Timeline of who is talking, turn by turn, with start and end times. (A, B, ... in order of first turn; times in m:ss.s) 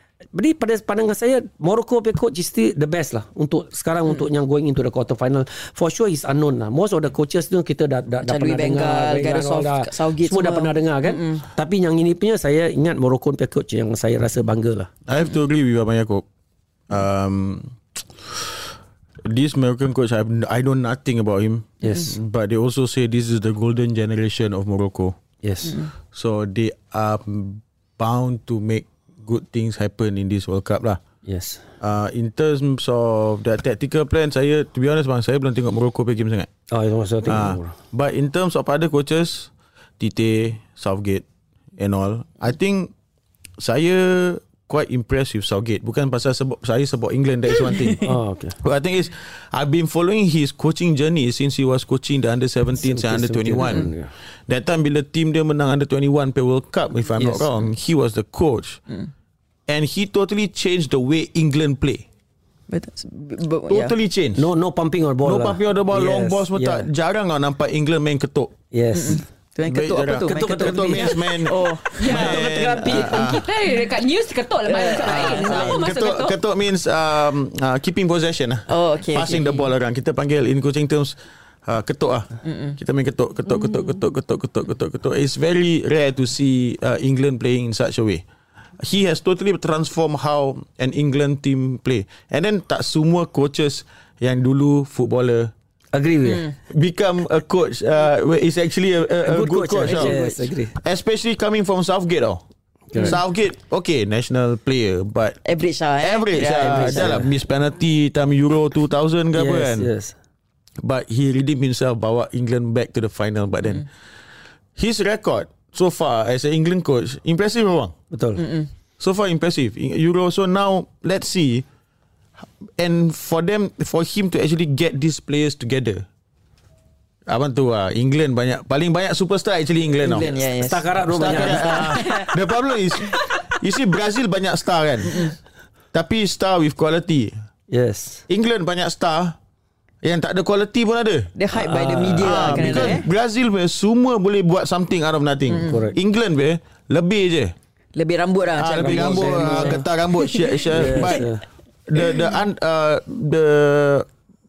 0:00.3-0:14.9 A
0:08.2-0:11.4 B
0:15.1-0:16.2 C
0:16.9-0:18.7 C
0:19.2-0:25.2 C
0:21.8-0:22.1 A
0:25.4-0:25.8 A
0:25.6-0:25.9 B
0:26.1-0:31.0 C
0:31.2-0:31.6 A
0:31.8-0:36.5 C
0:36.7-0:37.8 A
0:37.2-0:41.2 C
0:41.8-0:42.9 C
0:43.6-0:58.8 C
0:48.0-0:48.6 A
0:52.8-0:54.1 A
0:57.2-0:57.5 A
0:59.7-1:02.0 C
1:02.7-1:03.9 B
1:03.7-1:04.5 C
1:04.4-1:06.9 A
1:05.2-1:08.6 C
1:08.7-1:09.2 A
1:08.9-1:12.4 B
1:09.6-1:13.5 C
1:10.2-1:11.5 A
1:11.9-1:16.4 D
1:12.0-1:13.2 A
1:14.6-1:15.8 B
1:14.8-1:28.2 C
1:18.7-1:19.6 B
1:22.4-1:22.8 B
1:28.8-1:35.5 C
1:35.9-1:36.5 A
1:36.3-1:36.5 B
1:36.7-1:40.2 C
1:39.2-1:40.7 A
1:39.8-1:40.4 B
1:40.8-1:42.4 C
1:42.9-1:43.2 A
1:43.0-1:45.4 C
1:45.4-1:47.2 B
1:46.0-1:49.9 C
1:46.4-1:47.3 A
1:49.3-1:50.1 A
1:50.8-1:53.9 C
1:54.8-1:57.9 C
1:58.1-1:58.4 A
1:58.4-1:58.7 B
1:59.0-2:01.6 C
2:02.8-2:06.0 C
2:07.3-2:10.4 C
2:10.0-2:12.3 B
2:10.6-2:12.0 A
2:10.9-2:15.3 C
2:15.1-2:15.3 B
2:15.9-2:17.3 C
2:17.7-2:18.2 A
2:18.3-2:19.4 C
2:20.0-2:21.3 C
2:21.3-2:23.0 B
2:21.6-2:23.0 A
2:22.2-2:27.5 C
2:25.5-2:25.8 B
2:25.5-2:26.0 A
2:28.0-2:31.2 B
2:28.6-2:31.3 C
2:28.7-2:29.8 A
2:30.7-2:31.4 A
2:31.9-2:34.1 C